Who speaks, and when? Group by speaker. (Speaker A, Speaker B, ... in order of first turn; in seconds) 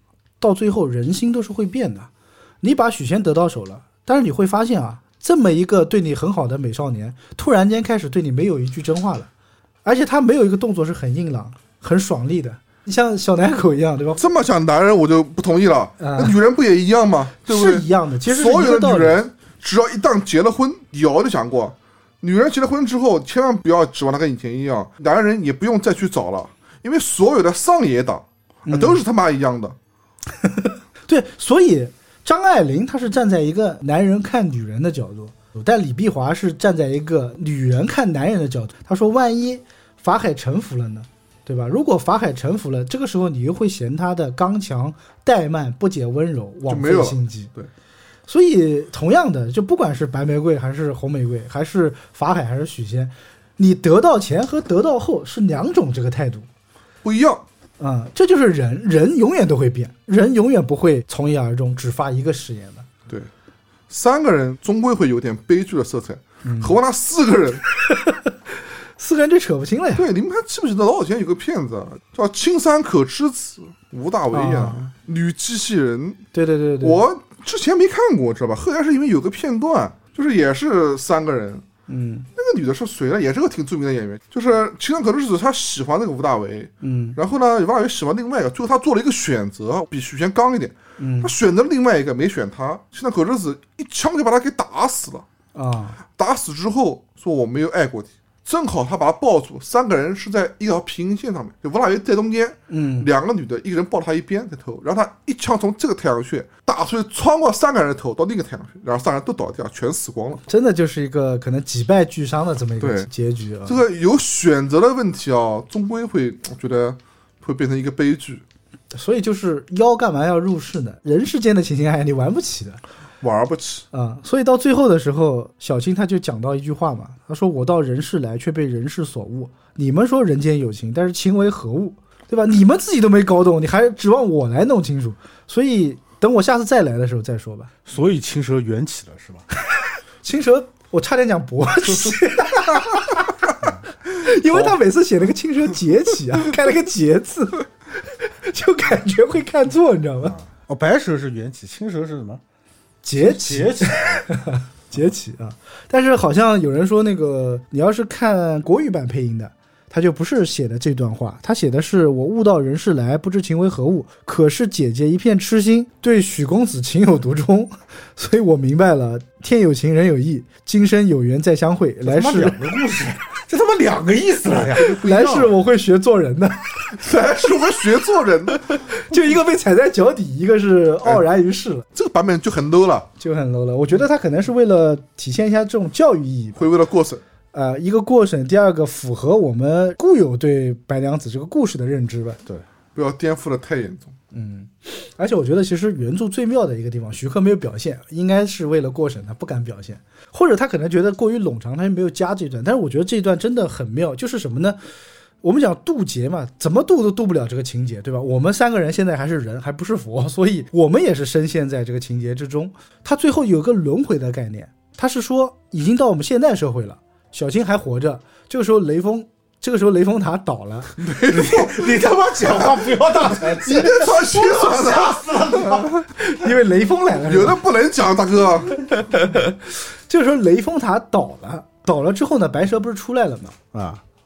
Speaker A: 0.4-2.1, 2.6-9.3, 9.8-14.2, 16.0-16.4, 17.4-19.2, 28.7-29.0, 30.4-47.5, 48.3-56.5, 57.8-62.9, 66.4-66.8, 67.8-68.3, 69.0-70.0, 74.3-74.9, 76.3-77.0, 81.9-82.3, 86.8-87.2, 91.0-91.3, 95.5-96.0, 102.7-103.1, 110.5-113.8, 118.9-122.8, 123.9-137.7, 140.2-143.1, 144.1-150.4, 153.0-172.6, 174.8-176.7, 178.8-181.8, 183.2-186.6, 187.5-192.4, 194.3-204.8, 205.4-221.0, 226.2-227.6, 229.1-229.5, 230.1-233.6
Speaker B: 14.2-29.8, 46.7-47.7, 57.0-57.4, 63.9-67.6, 70.0-76.2, 76.8-81.6, 82.3-95.2, 96.2-110.4, 112.8-113.1, 113.7-118.4, 123.2-123.8, 174.7-175.4, 176.9-178.6, 181.9-183.1, 186.6-187.2, 192.9-194.1, 221.1-221.9, 223.3-226.0, 227.3-228.8
Speaker C: 137.8-139.4, 150.2-152.4, 153.2-154.2, 172.0-175.5, 221.0-226.0, 233.7-234.0